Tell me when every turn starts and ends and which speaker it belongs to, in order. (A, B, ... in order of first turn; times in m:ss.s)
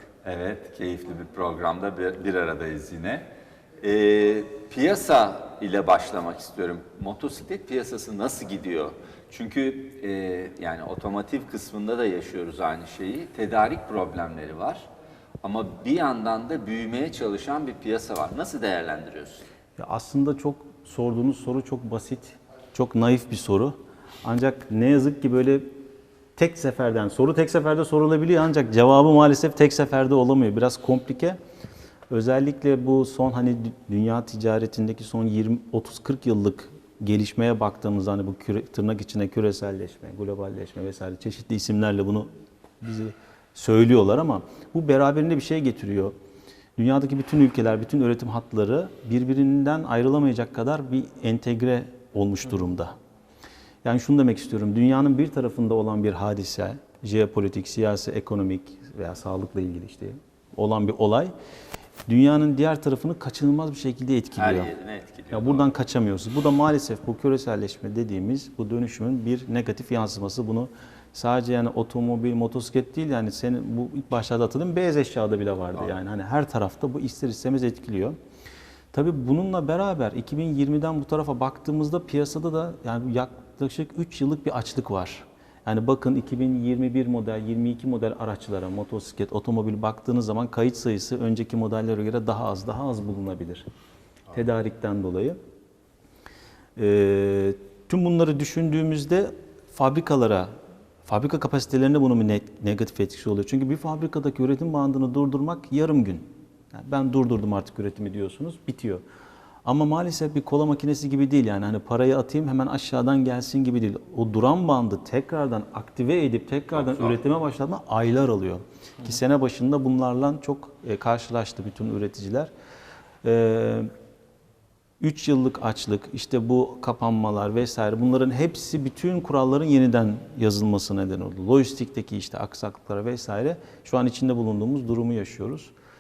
0:00.2-0:03.2 A
0:03.8-0:14.9 A
0:15.4-0:19.4 A
0:19.8-0:25.7 B
0:26.4-0:31.4 B
0:32.1-0:42.3 B
0:42.8-0:46.1 B
0:46.8-0:52.9 B
0:53.8-1:01.3 B
1:02.1-1:04.7 B
1:04.4-1:05.6 A
1:05.3-1:18.2 B
1:18.9-1:33.6 B
1:34.3-1:35.4 B
1:36.8-1:40.5 B
1:41.1-1:49.0 B
1:49.6-2:02.5 B
1:56.8-1:57.2 A
2:03.2-2:03.9 B
2:05.0-2:15.7 B